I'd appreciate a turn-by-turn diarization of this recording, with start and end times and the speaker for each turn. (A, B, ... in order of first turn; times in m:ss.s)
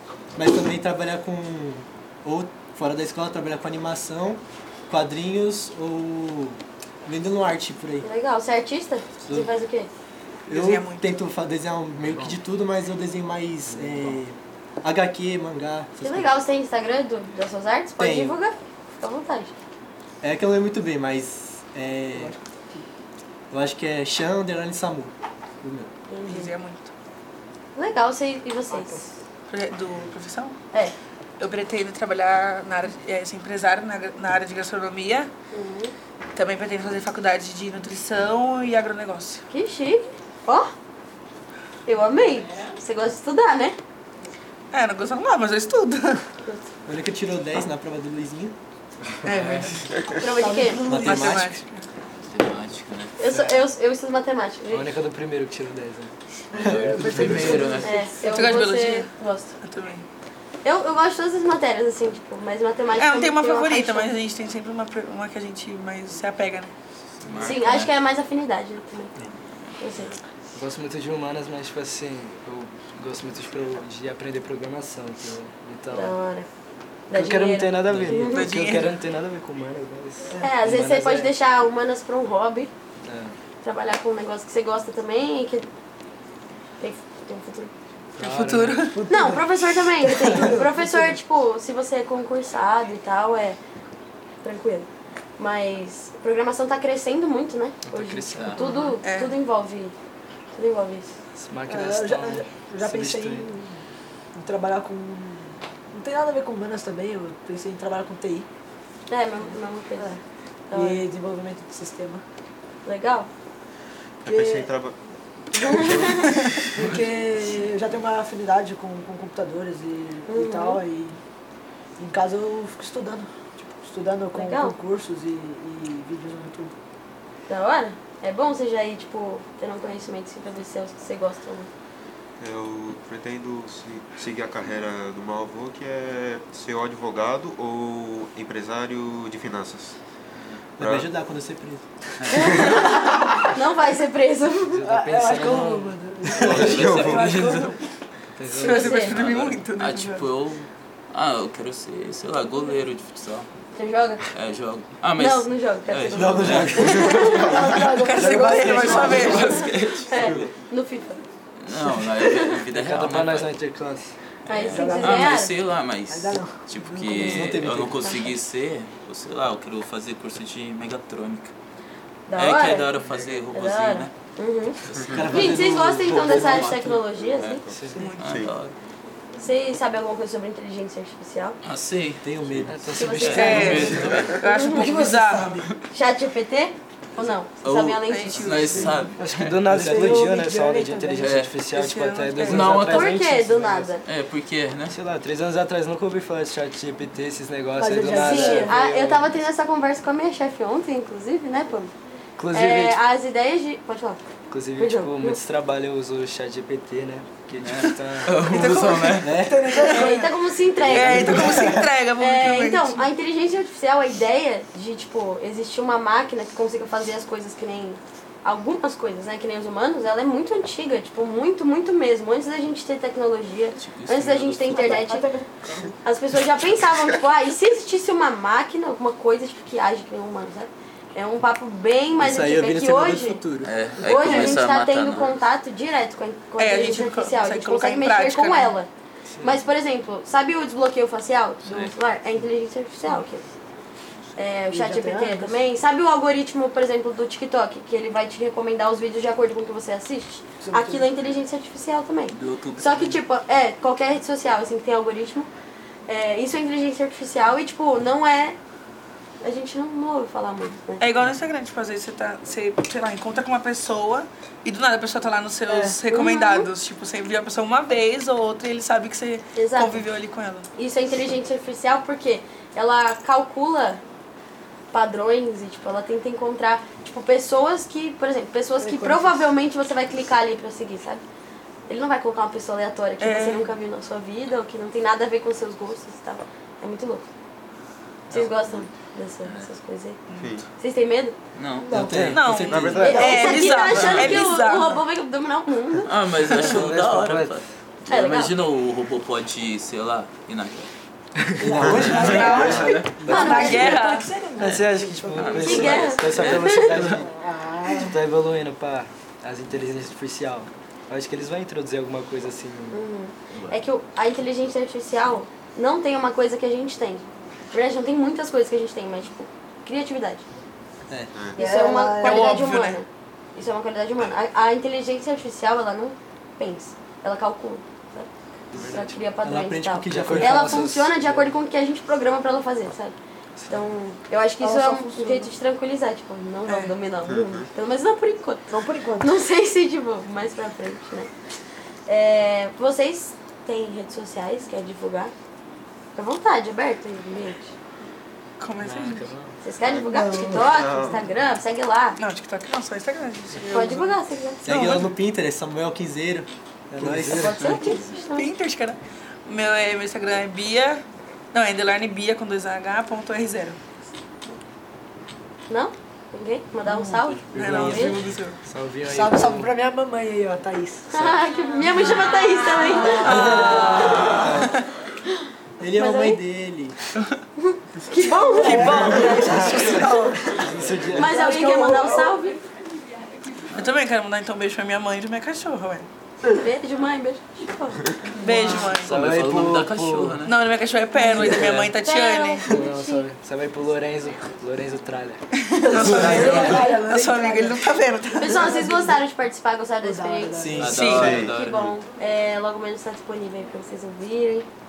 0:00.4-0:08.1 A
0:08.0-0:09.9 B
0:10.5-0:16.3 A
0:10.5-0:11.2 C
0:12.1-0:12.4 D
0:13.7-0:14.2 D
0:16.0-0:19.5 B
0:18.0-0:18.4 A
0:20.2-0:22.3 A
0:22.1-0:22.9 E
0:23.5-0:25.9 A
0:26.1-0:26.5 B
0:26.2-0:26.9 C
0:27.8-0:29.1 B
0:28.7-0:29.0 E
0:29.5-0:30.6 C
0:31.4-0:35.3 C
0:35.5-0:35.9 B
0:36.3-0:39.4 C
0:39.5-0:40.7 B
0:41.9-0:43.8 B
0:44.7-0:46.3 C
0:46.9-0:48.6 A
0:49.2-0:49.8 F
0:49.3-0:49.9 C
0:50.1-0:50.9 B
0:50.3-0:51.4 E
0:50.8-0:51.6 A
0:50.9-0:51.9 C
0:52.3-0:53.2 F
0:53.2-0:54.9 B
0:53.3-0:53.6 D
0:54.7-0:56.1 D
0:56.5-0:58.3 E
0:56.5-0:57.9 F
0:57.8-0:59.6 B
0:58.2-1:00.1 C
1:00.6-1:04.1 B
1:02.9-1:06.7 C
1:07.2-1:07.9 F
1:07.4-1:09.1 B
1:09.3-1:10.1 F
1:09.8-1:10.2 B
1:10.5-1:16.2 D
1:15.9-1:16.5 B
1:17.1-1:18.5 B
1:17.1-1:21.3 D
1:17.9-1:18.2 F
1:18.4-1:18.9 C
1:20.4-1:22.7 B
1:23.0-1:23.4 D
1:23.6-1:25.7 B
1:26.8-1:27.7 B
1:28.2-1:28.9 D
1:28.2-1:29.1 C
1:28.9-1:29.5 E
1:29.1-1:33.6 B
1:30.0-1:31.2 E
1:34.4-1:40.0 B
1:37.8-1:38.8 D
1:38.3-1:38.7 F
1:39.0-1:39.4 C
1:40.5-1:41.1 B
1:41.4-1:43.5 D
1:41.7-1:43.7 E
1:44.3-1:48.5 E
1:49.1-1:51.1 B
1:50.7-1:52.2 E
1:52.8-1:53.3 B
1:54.2-1:55.0 G
1:54.2-1:54.7 E
1:55.6-1:56.3 B
1:55.7-1:56.1 G
1:56.6-2:01.2 E
2:00.3-2:00.8 B
2:02.0-2:06.7 E
2:04.4-2:04.8 B
2:07.5-2:11.7 B
2:12.4-2:20.0 G
2:20.8-2:21.1 G
2:20.8-2:21.9 A
2:22.2-2:22.9 F
2:22.3-2:24.8 B
2:22.5-2:22.8 G
2:24.6-2:26.5 D
2:24.8-2:27.8 E
2:26.4-2:27.7 F
2:26.4-2:27.3 G
2:28.3-2:28.8 D
2:28.5-2:29.2 B
2:28.6-2:30.3 C
2:29.0-2:33.5 F
2:33.8-2:34.2 B
2:34.3-2:37.8 F
2:35.2-2:37.5 B
2:36.2-2:37.1 A
2:36.7-2:39.6 E
2:37.9-2:39.7 C
2:38.6-2:39.3 G
2:38.7-2:40.5 F
2:40.0-2:41.2 B
2:40.2-2:40.5 G
2:41.6-2:43.5 F
2:42.2-2:42.6 B
2:42.7-2:44.2 D
2:44.5-2:45.6 B
2:44.5-2:51.5 F
2:44.7-2:45.4 E
2:46.1-2:47.5 E
2:47.2-2:48.2 A
2:48.0-2:48.3 B
2:52.3-2:52.9 B
2:52.4-2:54.1 F
2:53.5-2:57.6 B
2:54.9-2:55.3 F
2:55.0-2:55.2 G
2:55.1-2:56.3 A
2:56.0-2:58.8 F
2:57.7-2:58.5 G
2:57.7-2:58.1 D
2:58.0-2:58.4 C
2:59.4-3:01.6 B
3:01.6-3:02.4 F
3:02.2-3:02.8 A
3:02.7-3:04.3 D
3:02.9-3:05.0 B
3:03.2-3:04.4 F
3:03.3-3:05.6 C
3:03.8-3:05.7 E
3:05.9-3:08.8 B
3:07.6-3:09.7 F
3:08.1-3:09.1 C
3:09.2-3:13.9 D
3:09.7-3:11.3 E
3:11.2-3:11.6 F
3:11.7-3:12.7 C
3:12.4-3:13.2 F
3:12.9-3:14.1 B
3:14.0-3:15.0 F
3:14.9-3:19.3 D
3:17.8-3:18.9 E
3:18.1-3:21.9 B
3:22.4-3:23.0 D
3:22.5-3:24.2 B
3:24.5-3:28.4 D
3:24.8-3:25.4 B
3:27.6-3:29.4 F
3:28.4-3:30.2 C
3:29.1-3:29.8 A
3:29.5-3:30.3 E
3:29.8-3:45.3 B
3:30.8-3:31.8 D
3:30.9-3:33.1 C
3:31.2-3:31.7 A
3:43.8-3:44.8 F
3:44.7-3:46.0 E
3:46.0-3:53.4 B
3:52.2-3:53.7 A
3:53.6-3:55.4 F
3:54.0-3:58.9 B
3:56.6-3:58.8 C
3:59.3-3:59.6 D
3:59.4-4:03.5 B
4:01.7-4:01.9 F
4:04.4-4:15.5 B
4:04.7-4:05.6 E
4:10.6-4:11.1 E
4:12.3-4:13.2 F
4:16.1-4:18.6 B
4:19.4-4:21.1 B
4:21.0-4:30.7 C
4:25.7-4:26.0 E
4:26.1-4:26.7 B
4:29.6-4:30.0 B
4:30.8-4:34.0 B
4:34.9-4:41.2 B
4:38.8-4:39.5 E
4:41.9-4:47.3 B
4:43.2-4:43.7 C
4:48.3-4:50.2 B
4:48.3-4:48.9 F
4:49.4-4:49.7 F
4:50.3-4:50.6 C
4:50.4-4:50.6 G
4:50.8-4:51.4 B
4:51.6-4:52.0 F
4:51.8-4:52.2 E
4:51.9-4:53.1 A
4:52.0-4:53.1 D
4:52.2-4:55.0 C
4:52.6-4:53.8 G
4:53.0-4:56.1 B
4:53.7-4:54.4 F
4:56.0-5:00.9 F
4:56.5-4:57.6 D
4:58.1-4:58.6 B
5:01.4-5:01.8 D
5:01.6-5:06.1 E
5:01.6-5:04.0 A
5:01.8-5:03.1 G
5:01.9-5:03.2 F
5:02.0-5:04.3 C
5:03.2-5:04.0 B
5:04.6-5:07.2 D
5:04.6-5:07.2 F
5:05.6-5:06.9 B
5:06.9-5:08.2 E
5:07.9-5:13.0 D
5:12.9-5:20.4 B
5:13.5-5:13.8 F
5:21.3-5:21.6 G
5:21.6-5:22.6 E
5:21.6-5:33.2 B
5:22.2-5:23.0 C
5:28.7-5:29.0 D
5:28.8-5:29.2 G
5:29.4-5:30.8 A
5:30.1-5:31.5 D
5:33.6-5:33.9 D
5:33.7-5:38.7 B
5:34.6-5:35.5 E
5:36.7-5:37.0 C
5:37.3-5:37.7 G
5:38.7-5:39.4 E
5:39.2-5:41.3 B
5:42.1-5:45.3 B
5:46.2-5:47.7 B
5:48.6-5:49.3 C
5:48.8-5:49.6 D
5:49.6-5:52.2 B
5:49.8-5:51.2 G
5:50.1-5:51.2 E
5:52.2-5:54.1 C
5:53.7-5:54.8 B
5:54.6-5:57.7 A
5:54.7-5:55.1 C
5:57.0-5:57.9 D
5:57.4-5:58.5 B
5:58.3-6:03.8 C
6:05.7-6:08.2 B
6:06.9-6:07.6 E
6:07.5-6:08.6 C
6:07.6-6:09.7 D
6:09.0-6:11.3 E
6:11.1-6:14.4 B
6:12.1-6:14.8 C
6:12.9-6:14.4 E
6:13.2-6:14.8 A
6:15.8-6:17.0 A
6:16.0-6:16.4 B
6:17.6-6:19.1 B
6:18.4-6:22.4 E
6:18.6-6:20.4 C
6:19.3-6:21.4 D
6:21.2-6:22.6 B
6:23.7-6:26.1 C
6:26.5-6:28.0 B
6:28.4-6:29.2 C
6:28.8-6:30.4 D
6:29.2-6:30.6 F
6:30.4-6:32.8 C
6:31.2-6:33.3 B
6:31.3-6:32.0 F
6:32.7-6:35.4 D
6:35.5-6:38.7 C
6:35.8-6:37.9 E
6:36.0-6:36.5 D
6:36.0-6:36.9 A
6:36.3-6:36.8 F
6:38.4-6:44.7 B
6:38.5-6:39.2 E
6:40.0-6:41.1 E
6:40.6-6:41.1 A
6:40.8-6:41.9 F
6:40.9-6:41.3 C
6:41.1-6:41.9 G